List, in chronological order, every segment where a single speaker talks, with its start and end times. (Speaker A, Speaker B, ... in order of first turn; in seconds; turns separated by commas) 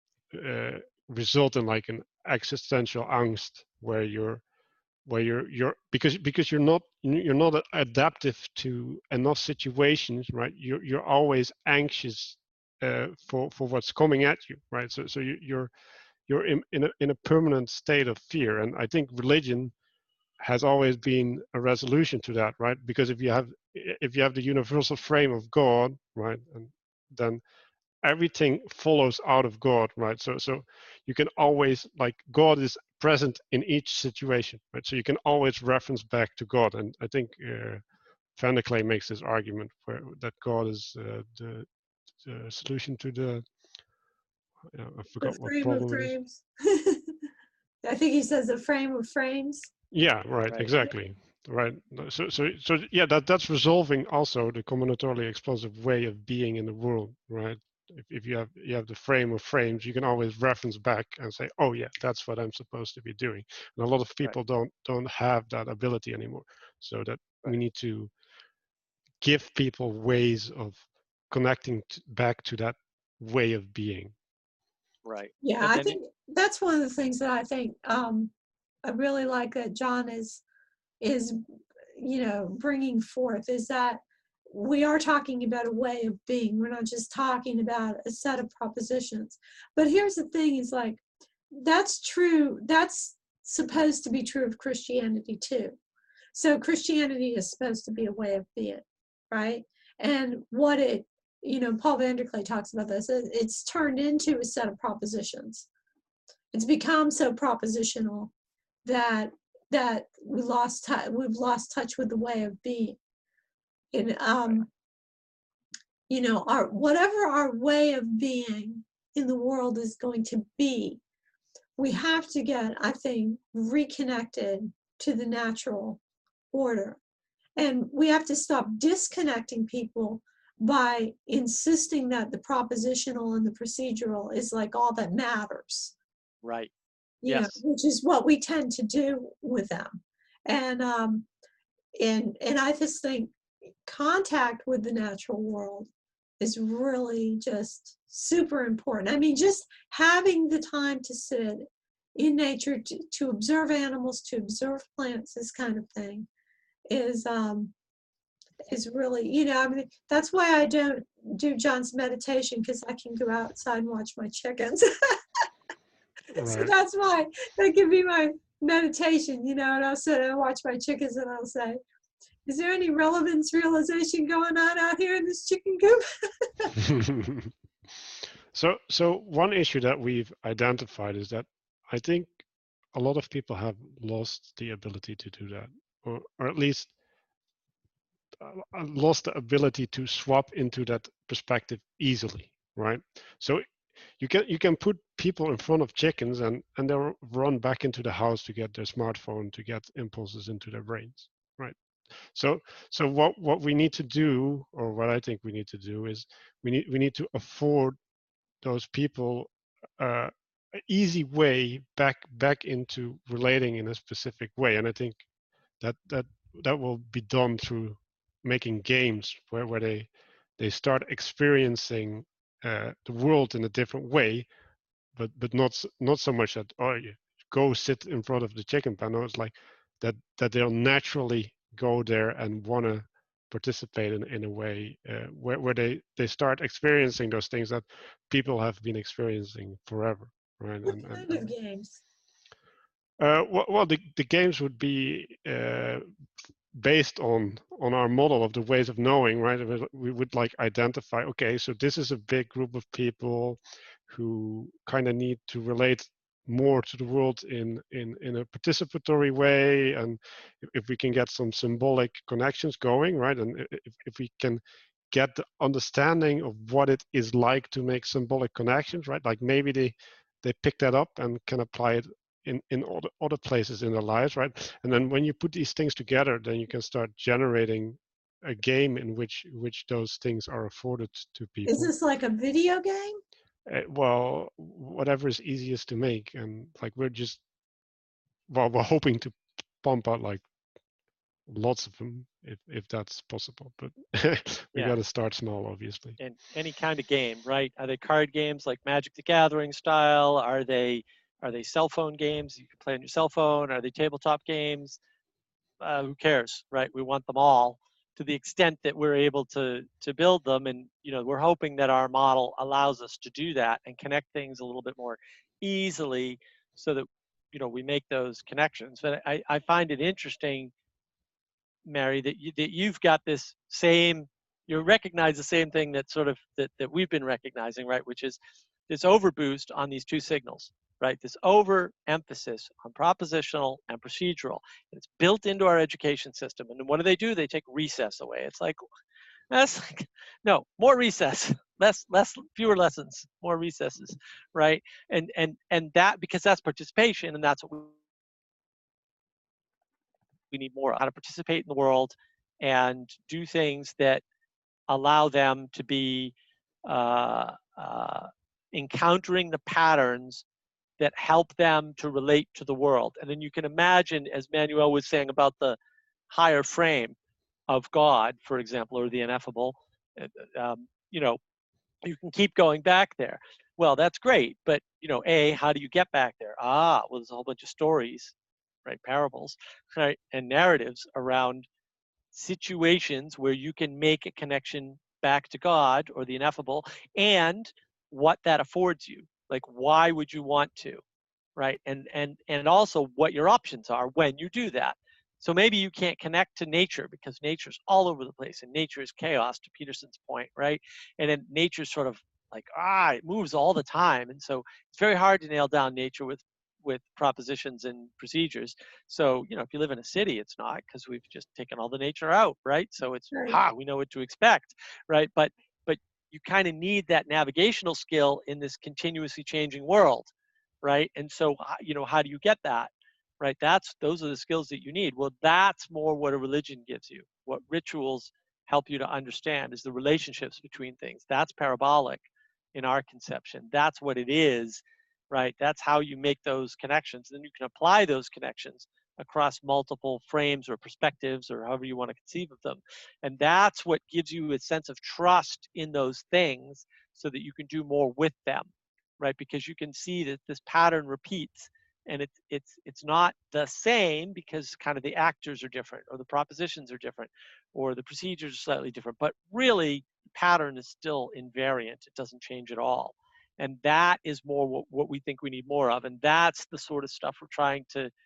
Speaker A: 0.3-4.4, Speaker A: 5.1-15.7, Speaker A: 16.3-19.7, Speaker A: 20.4-27.4, Speaker A: 28.0-37.8, Speaker A: 38.4-41.7, Speaker A: 42.2-43.4, Speaker A: 44.7-46.1, Speaker B: 45.2-47.1, Speaker B: 47.8-49.7, Speaker A: 49.9-68.1, Speaker A: 69.2-74.1, Speaker C: 75.0-76.0, Speaker B: 75.4-78.3, Speaker B: 78.8-80.4, Speaker B: 81.0-81.4, Speaker B: 82.0-95.8, Speaker B: 96.3-105.7, Speaker B: 106.5-108.3, Speaker B: 108.8-113.0, Speaker B: 113.9-114.7, Speaker B: 116.1-121.0, Speaker B: 121.8-126.0, Speaker B: 126.5-127.0, Speaker B: 127.6-135.9, Speaker C: 136.4-136.7, Speaker B: 137.2-141.3, Speaker C: 137.3-137.6, Speaker B: 142.0-145.9, Speaker B: 146.4-156.3, Speaker B: 156.9-157.7, Speaker B: 158.7-165.4, Speaker A: 166.3-166.7, Speaker B: 166.4-171.8, Speaker B: 172.5-176.7, Speaker A: 176.8-177.5, Speaker A: 178.5-182.4, Speaker A: 182.9-186.9, Speaker A: 188.4-201.8, Speaker A: 202.3-208.0, Speaker A: 208.6-215.2, Speaker A: 215.8-224.5, Speaker A: 225.2-241.5, Speaker B: 240.9-242.0, Speaker A: 243.2-246.1, Speaker A: 246.7-281.9, Speaker B: 281.7-283.2, Speaker A: 283.7-287.4, Speaker A: 288.5-290.4, Speaker A: 291.5-296.2, Speaker C: 296.2-305.0, Speaker C: 305.8-320.7, Speaker C: 321.9-328.4, Speaker C: 328.9-338.8, Speaker C: 339.5-347.9, Speaker C: 350.5-354.2, Speaker C: 354.9-356.3, Speaker C: 356.9-360.4, Speaker C: 361.0-365.8, Speaker C: 366.3-367.1, Speaker C: 367.7-371.4, Speaker C: 372.0-378.3, Speaker C: 378.9-381.7, Speaker C: 382.3-391.0, Speaker C: 391.6-420.3, Speaker B: 413.3-413.6, Speaker C: 420.8-432.2, Speaker C: 432.8-448.7, Speaker C: 449.2-468.1